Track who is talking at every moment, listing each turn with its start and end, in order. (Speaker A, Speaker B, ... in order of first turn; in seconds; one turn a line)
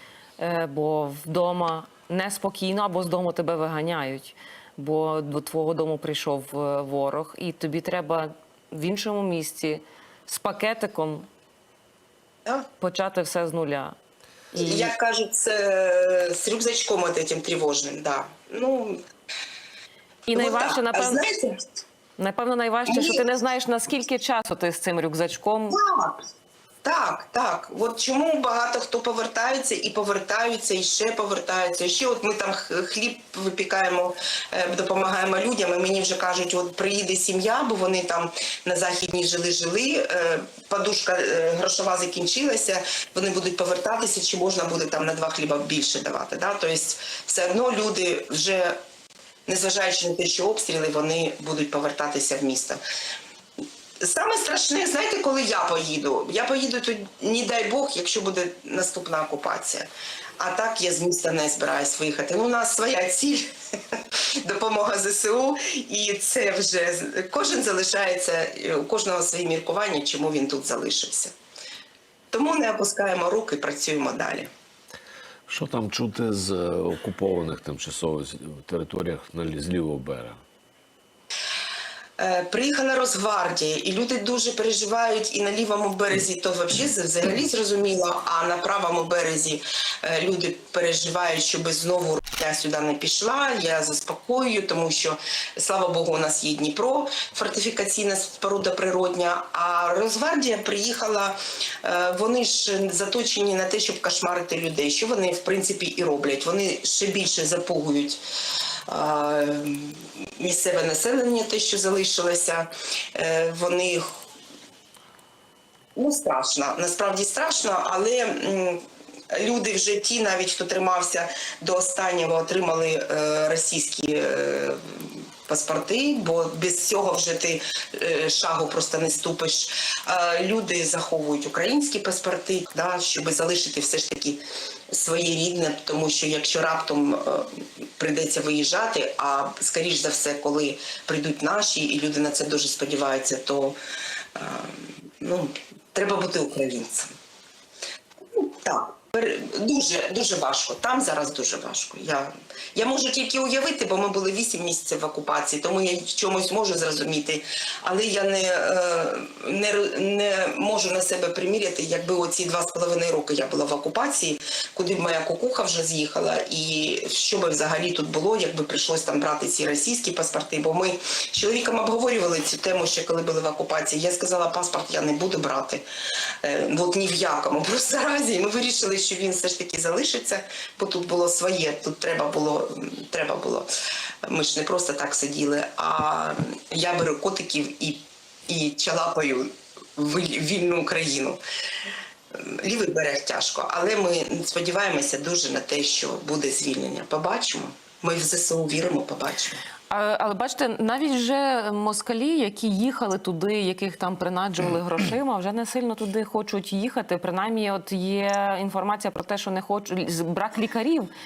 Speaker A: 0.4-11.3
Speaker A: 12.8-13.9
Speaker A: 14.5-14.9
Speaker B: 14.6-19.0
Speaker A: 20.2-21.2
Speaker B: 20.3-21.6
Speaker A: 22.2-25.8
Speaker B: 22.9-23.2
Speaker B: 25.7-26.2
Speaker B: 26.8-48.8
Speaker B: 49.5-52.8
Speaker B: 54.0-71.3
Speaker B: 72.3-74.5
Speaker C: 75.5-80.4
Speaker B: 82.2-108.2
Speaker B: 108.9-114.0
Speaker B: 116.0-118.8
Speaker B: 119.3-143.8
Speaker B: 144.3-147.1
Speaker B: 148.3-175.8
Speaker B: 176.4-183.7
Speaker B: 184.2-191.4
Speaker B: 192.3-199.6
Speaker A: 199.9-211.1